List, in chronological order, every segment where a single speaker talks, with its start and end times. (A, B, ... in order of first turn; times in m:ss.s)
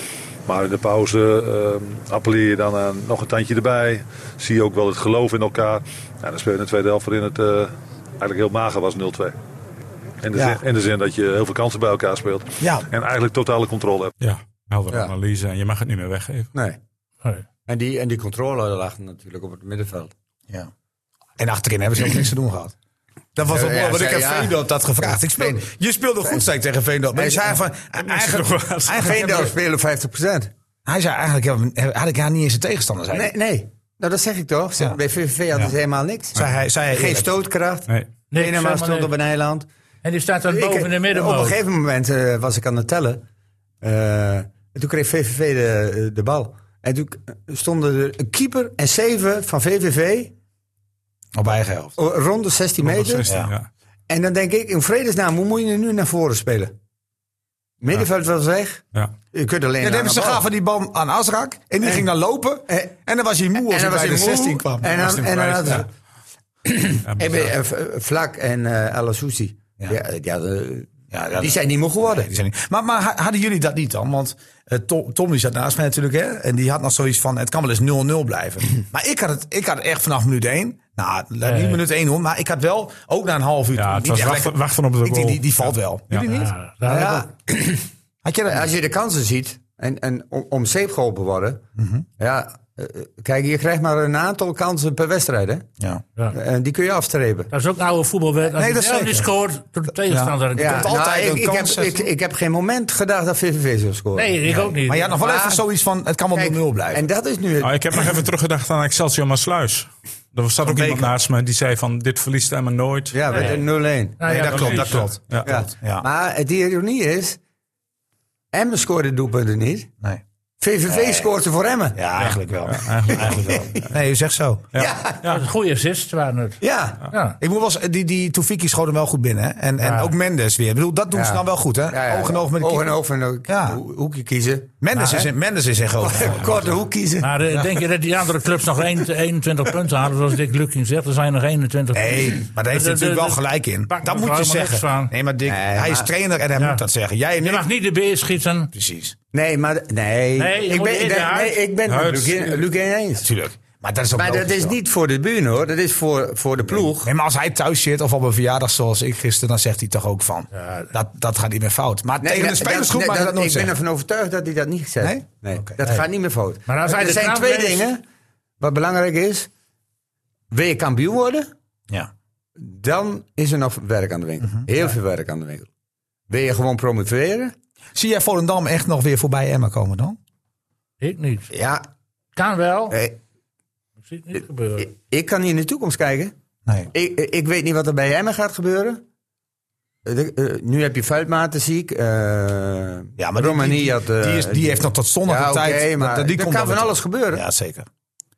0:00.5-0:09.4 A
0:10.2-0:14.1 A
0:10.4-0:10.6 B
0:12.6-0:12.9 B
0:14.2-0:16.5 C
0:16.5-0:16.8 D
0:17.7-0:20.1 D
0:21.4-0:22.7 B
0:23.4-0:29.5 B
0:23.5-0:25.6 D
0:27.1-0:27.6 D
0:28.0-0:29.3 C
0:29.0-0:30.5 D
0:30.9-0:33.3 B
0:33.1-0:39.7 D
0:36.3-0:37.3 B
0:38.3-0:39.1 E
0:40.0-0:41.6 E
0:40.5-0:43.2 D
0:43.8-0:50.3 D
0:51.4-0:52.0 B
0:52.0-0:53.3 D
0:52.8-0:53.7 C
0:54.1-0:56.8 D
0:57.8-1:00.5 D
0:59.8-1:05.0 B
1:01.8-1:02.1 D
1:02.7-1:03.0 D
1:03.6-1:05.9 D
1:04.9-1:05.9 C
1:06.6-1:12.3 D
1:07.0-1:07.5 C
1:11.1-1:26.5 B
1:21.4-1:21.8 E
1:23.8-1:26.3 C
1:26.1-1:27.3 E
1:26.8-1:27.9 D
1:28.2-1:28.7 B
1:28.5-1:31.6 D
1:31.8-1:32.1 B
1:32.2-1:35.7 D
1:36.3-1:37.5 D
1:37.5-1:40.9 E
1:38.6-1:39.3 B
1:40.1-1:42.1 B
1:40.6-1:45.6 D
1:44.2-1:45.2 E
1:44.9-1:47.0 B
1:46.3-1:48.1 D
1:47.6-1:53.4 C
1:50.6-1:51.2 B
1:53.1-1:54.4 D
1:54.2-1:55.1 E
1:54.2-1:56.0 B
1:54.5-1:55.5 C
1:55.4-1:57.4 D
1:58.5-1:59.9 D
2:00.6-2:02.1 D
2:00.9-2:01.3 B
2:02.0-2:04.7 B
2:02.2-2:03.8 C
2:03.1-2:03.8 D
2:04.7-2:05.5 C
2:04.8-2:05.3 D
2:05.3-2:07.4 E
2:06.6-2:07.0 D
2:07.4-2:12.9 B
2:09.8-2:10.1 E
2:11.1-2:15.3 D
2:13.5-2:13.8 B
2:14.8-2:16.8 B
2:16.0-2:17.4 D
2:17.2-2:25.1 E
2:21.9-2:27.7 B
2:25.5-2:26.1 D
2:26.6-2:26.8 E
2:27.4-2:28.7 E
2:28.7-2:29.2 B
2:29.3-2:33.3 D
2:30.4-2:31.6 E
2:31.9-2:32.6 C
2:33.2-2:34.8 B
2:34.1-2:37.1 D
2:36.9-2:43.7 B
2:40.5-2:40.9 E
2:42.2-2:48.0 D
2:45.0-2:45.8 B
2:46.7-2:47.9 E
2:48.6-2:49.5 D
2:50.5-2:51.5 D
2:52.6-2:55.7 D
2:56.3-2:57.5 D
2:58.0-3:00.2 B
3:01.0-3:01.5 E
3:01.5-3:01.9 D
3:02.4-3:03.0 E
3:02.9-3:03.2 D
3:04.1-3:04.9 E
3:04.8-3:06.3 D
3:06.9-3:09.0 D
3:10.0-3:17.4 D
3:13.2-3:17.9 B